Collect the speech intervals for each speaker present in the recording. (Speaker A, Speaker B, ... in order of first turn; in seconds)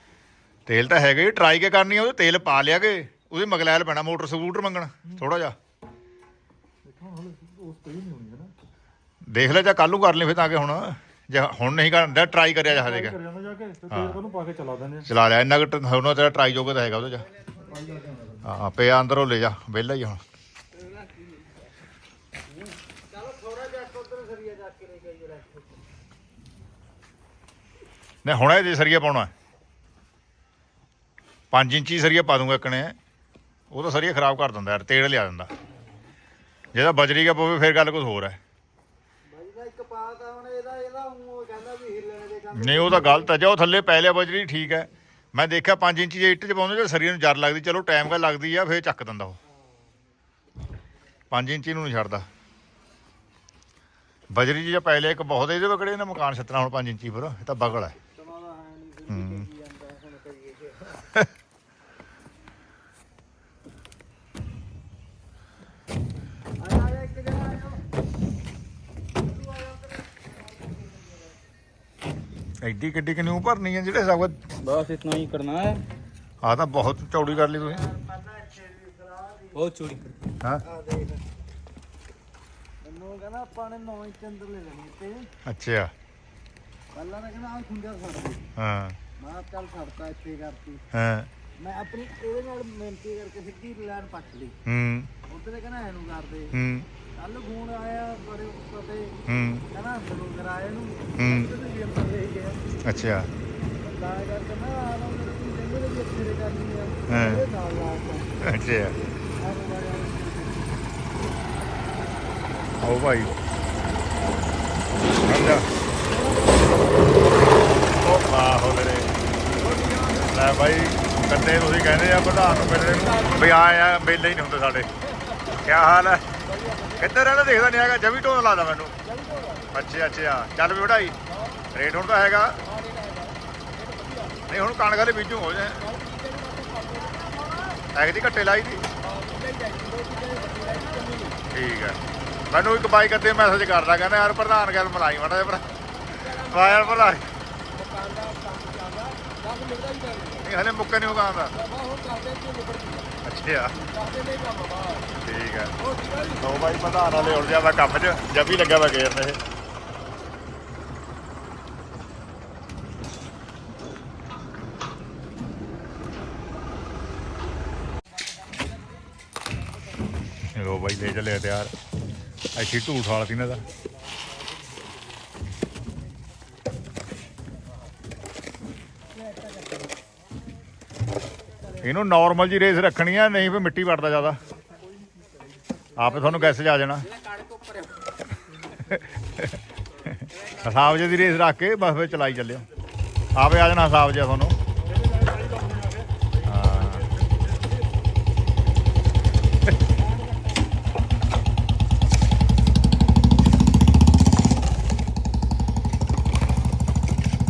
Speaker A: 0.7-5.5, 9.2-13.2, 13.9-14.2, 15.0-17.2, 18.4-20.2, 28.2-29.3, 31.5-32.9, 33.7-35.5, 36.7-38.4, 42.5-49.4, 51.3-52.3, 54.3-58.0, 59.1-59.5, 72.6-74.4, 76.4-77.9, 85.4-85.9, 88.5-89.0, 90.9-91.3, 94.6-95.1, 96.5-96.9, 99.3-99.7, 101.2-101.5, 102.8-103.3, 107.1-107.4, 108.4-109.0, 112.8-113.3, 115.2-115.6, 118.0-119.1, 120.3-124.9, 125.6-126.3, 127.0-128.9, 129.7-131.2, 131.7-132.6, 134.5-135.9, 137.9-138.8, 141.5-147.3, 150.4-151.5, 153.2-153.7, 155.2-155.7, 156.4-159.4, 170.5-171.7, 172.5-173.6, 181.8-184.4, 185.9-187.1, 189.3-190.1, 190.6-192.7, 193.3-194.6, 196.4-197.1
Speaker B: 6.8-8.5, 12.7-15.1, 17.8-18.3, 195.2-195.9
Speaker C: 23.2-25.5, 39.3-43.3, 58.2-60.9, 66.6-67.8, 77.9-79.6, 80.7-81.2, 82.8-85.3, 86.9-88.4, 89.2-90.8, 91.6-94.5, 95.3-96.5, 97.2-99.2, 99.7-102.6, 103.8-108.3, 109.4-110.9, 116.1-116.7, 137.3-137.6
Speaker D: 74.7-75.0, 79.5-80.2, 119.6-120.3, 122.5-123.4, 126.5-127.0, 129.1-129.7, 132.7-134.4, 135.8-137.1, 139.0-141.4, 146.1-147.1, 147.7-150.5, 151.5-153.1, 153.8-155.1, 155.8-156.4, 157.0-157.4, 186.1-188.0, 190.6-191.2